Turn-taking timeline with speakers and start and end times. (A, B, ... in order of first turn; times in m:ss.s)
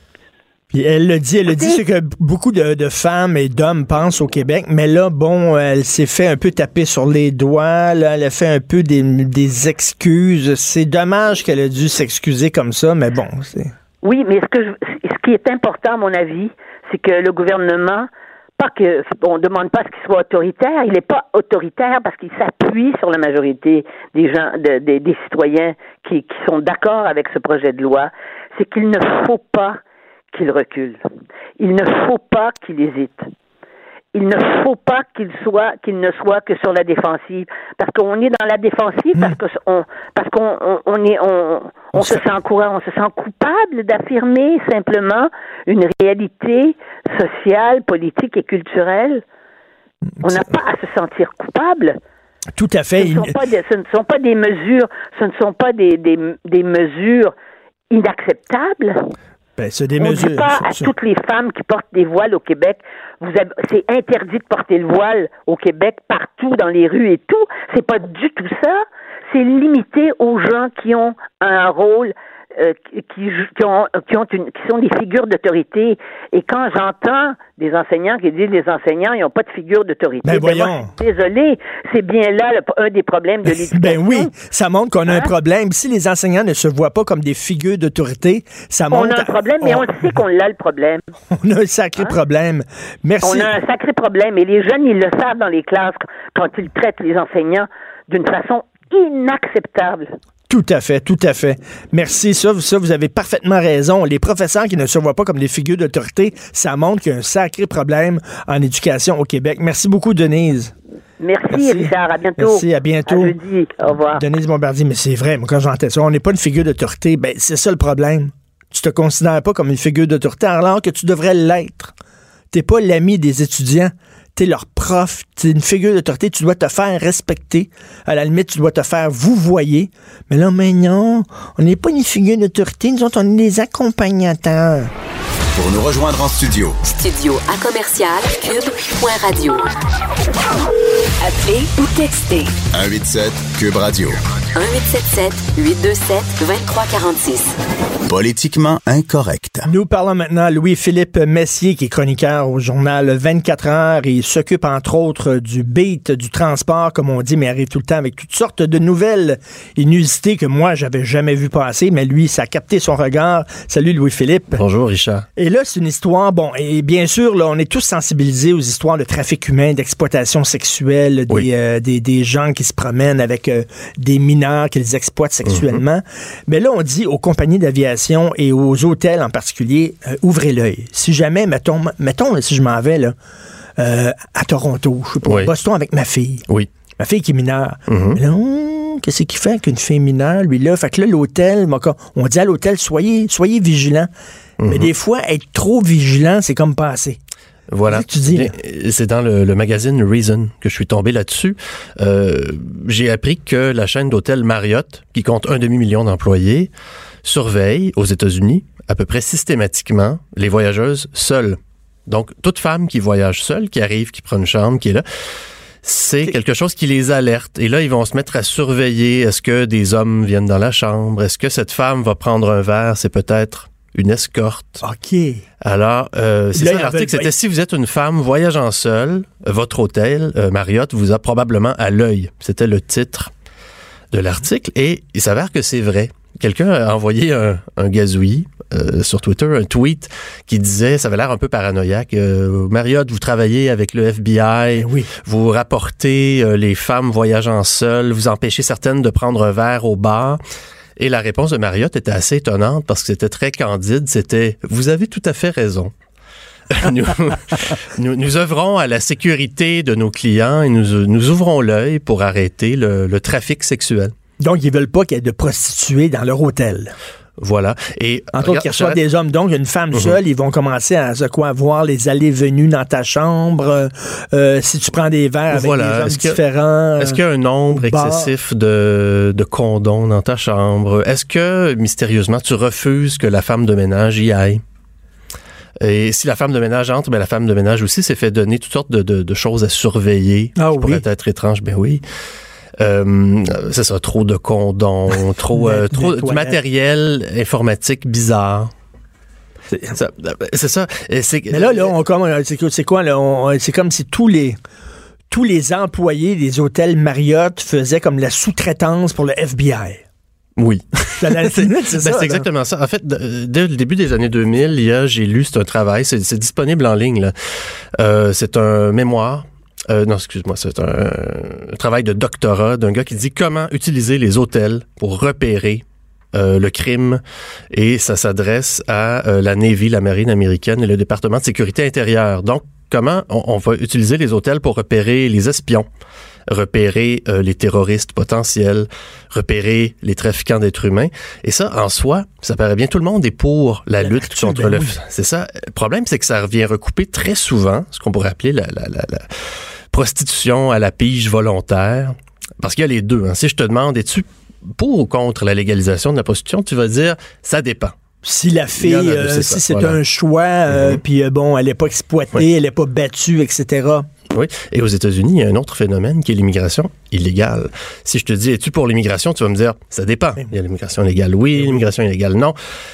0:00.7-0:13.7 A
0:01.5-0:01.8 B
0:14.0-0:29.8 B
0:30.3-0:31.0 B
0:31.6-0:33.3 B
0:34.1-0:49.2 B
0:42.0-0:42.2 A
0:50.2-0:52.0 B
0:52.6-0:53.3 A
0:53.0-0:57.3 B
0:57.9-0:59.1 B
0:59.6-1:00.9 A
1:00.0-1:24.3 B
1:20.2-1:20.9 A
1:23.7-1:30.2 A
1:28.9-1:31.0 B
1:31.4-1:33.6 A
1:33.2-1:40.2 B
1:40.5-1:50.7 A
1:51.2-1:54.2 B
1:51.5-1:53.4 A
1:54.1-2:01.9 A
2:02.5-2:14.9 A
2:15.6-2:16.8 C
2:16.9-2:19.7 D
2:21.2-2:22.6 D
2:22.7-2:24.2 C
2:24.5-2:27.6 D
2:28.1-2:29.7 C
2:29.7-2:44.6 A
2:44.6-2:45.2 E
2:45.4-3:03.2 A
2:55.5-2:55.8 E
3:03.8-3:06.4 A
3:05.2-3:05.5 E
3:07.0-3:14.1 A
3:07.9-3:08.2 E
3:14.6-3:14.9 E
3:14.7-3:17.2 A
3:17.7-3:26.7 E
3:17.9-3:18.5 A
3:27.2-3:35.0 E
3:35.8-3:44.8 E
3:44.8-3:45.4 A
3:45.6-3:53.3 E
3:46.5-3:47.3 A
3:54.1-4:10.4 E
4:04.8-4:05.1 A
4:11.0-4:15.9 E
4:16.7-4:24.1 E
4:24.4-4:26.9 A
4:27.4-4:29.0 E
4:28.3-4:38.3 A
4:35.5-4:36.4 E
4:37.0-4:44.6 E
4:45.8-4:52.0 E
4:50.6-4:51.0 A
4:52.8-4:58.7 E
4:55.5-4:56.6 A
4:59.7-5:00.0 A
4:59.9-5:01.9 E
5:01.5-5:04.6 A
5:05.3-5:10.0 A
5:10.6-5:17.3 E
5:11.2-5:12.5 A
5:18.0-5:27.2 E
5:27.7-5:35.9 E
5:36.5-5:49.3 E
5:44.0-5:45.0 A
5:49.9-5:58.0 E
5:58.2-6:04.1 A
5:58.8-6:00.0 E
6:00.7-6:01.0 E
6:04.3-6:12.6 E